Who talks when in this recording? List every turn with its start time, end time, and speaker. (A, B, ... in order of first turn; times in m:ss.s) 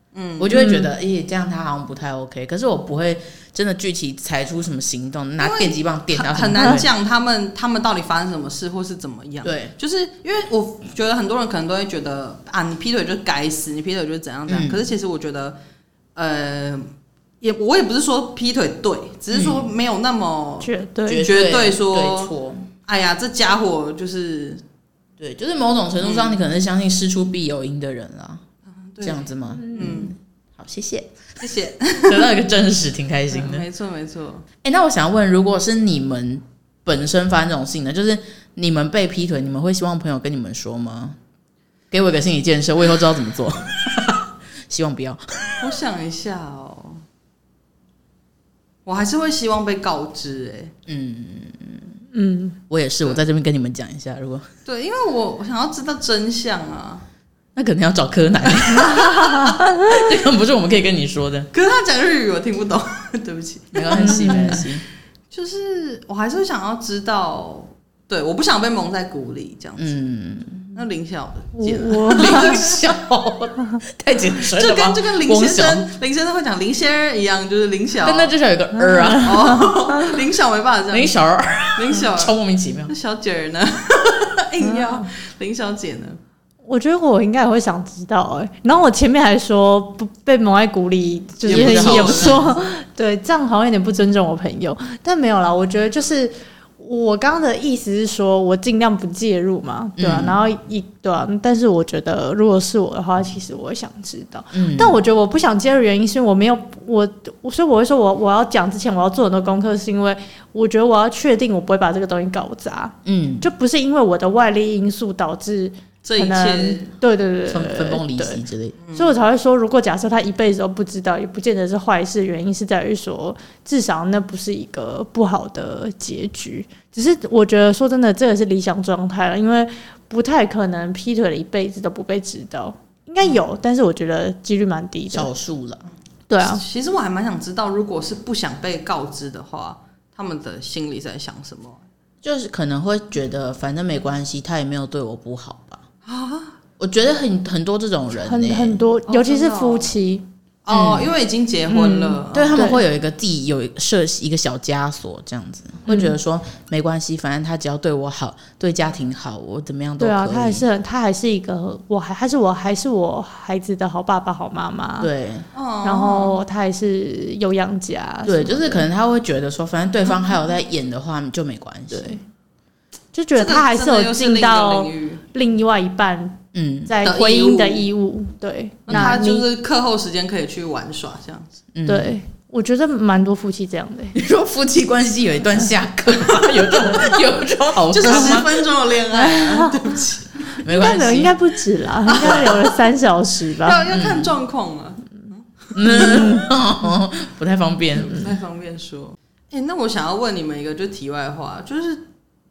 0:00.1-0:00.5 A
0:00.4-0:06.9 B
0:00.5-0:00.9 C
0:05.4-0:15.6 A
0:09.4-0:09.7 B
0:14.5-0:14.8 B
0:16.1-0:16.9 A
0:17.4-0:22.3 A
0:19.3-0:19.7 B
0:20.6-0:21.3 C
0:21.0-0:22.7 B
0:22.8-0:24.6 A
0:25.2-0:28.4 B
0:26.0-0:26.4 A
0:28.7-0:30.1 A
0:29.0-0:31.1 B
0:29.6-0:29.9 C
0:31.4-0:32.3 A
0:32.1-0:33.6 B
0:33.3-0:34.4 A
0:34.6-0:41.2 B
0:41.9-0:45.5 B
0:45.6-0:47.0 A
0:48.8-0:50.7 A
0:50.9-0:51.9 B
0:52.1-0:52.6 C
0:52.7-0:54.4 B
0:54.6-0:57.0 A
0:57.6-1:01.5 B
1:01.5-1:04.7 A
1:03.7-1:04.8 B
1:03.9-1:04.6 C
1:05.3-1:10.0 A
1:09.8-1:10.7 B
1:10.7-1:12.8 A
1:11.5-1:12.6 C
1:12.1-1:15.9 B
1:14.4-1:18.3 A
1:18.0-1:19.6 B
1:18.7-1:19.7 C
1:19.2-1:21.2 A
1:20.9-1:22.9 B
1:21.7-1:22.3 A
1:22.9-1:26.2 A
1:24.6-1:25.0 C
1:26.6-1:58.4 C
1:31.4-1:32.6 A
1:31.4-1:32.5 B
1:40.0-1:40.4 B
1:44.5-1:45.0 B
1:53.0-1:53.4 B
1:56.0-1:56.9 A
1:57.5-1:58.8 B
1:58.8-1:59.2 A
1:58.9-2:15.3 C
2:15.1-2:15.9 B
2:16.3-2:16.6 C
2:16.4-2:21.8 A
2:22.2-2:25.8 B
2:26.0-2:26.5 A
2:26.8-2:28.8 B
2:28.1-2:30.2 C
2:29.0-2:29.9 A
2:30.6-2:32.7 A
2:30.7-2:31.1 B
2:31.7-2:32.8 C
2:32.3-2:40.6 B
2:35.9-2:36.1 C
2:40.0-2:45.1 C
2:45.0-2:45.4 B
2:45.5-2:46.4 A
2:45.8-2:48.9 C
2:48.2-2:52.2 B
2:51.9-2:52.2 C
2:53.1-2:59.5 C
2:53.4-2:55.2 A
2:56.5-2:56.9 B
2:57.0-2:57.9 A
2:58.9-3:01.5 A
2:58.9-2:59.2 B
3:01.7-3:02.1 B
3:01.9-3:04.2 C
3:04.1-3:08.5 B
3:06.7-3:07.2 C
3:07.9-3:10.6 A
3:09.1-3:09.8 C
3:10.6-3:11.3 B
3:10.7-3:13.8 C
3:12.0-3:12.8 A
3:13.6-3:16.3 A
3:13.9-3:14.3 B
3:15.7-3:18.2 B
3:18.0-3:22.0 A